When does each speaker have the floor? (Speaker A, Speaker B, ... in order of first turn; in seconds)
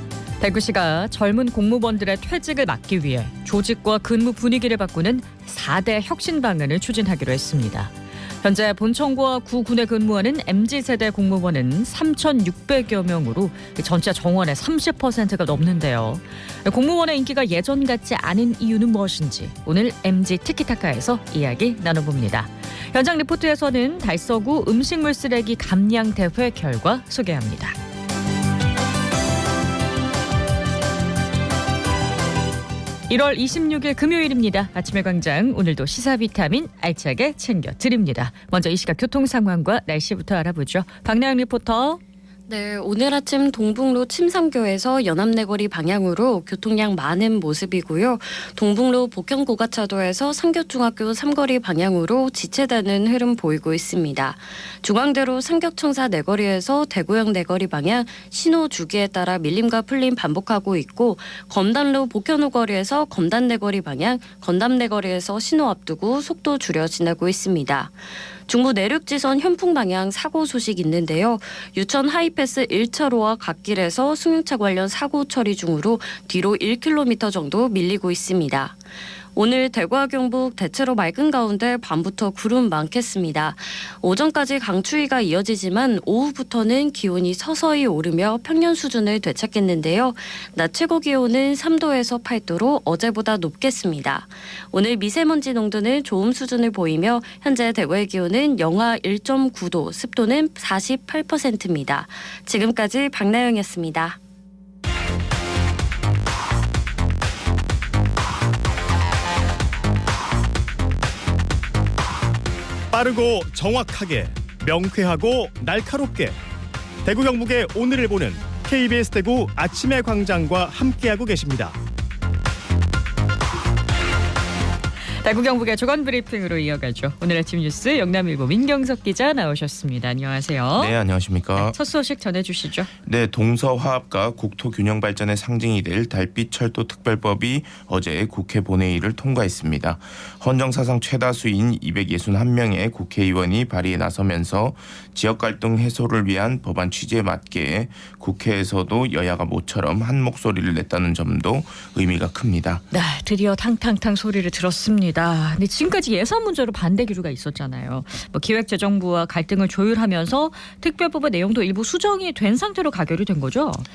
Speaker A: 0.4-27.8, 33.1-42.0, 125.2-130.9, 131.6-132.9, 152.9-163.8
Speaker B: 42.5-78.8, 79.3-104.2
Speaker C: 112.9-116.4, 117.0-121.8
Speaker D: 130.8-131.8, 133.0-152.8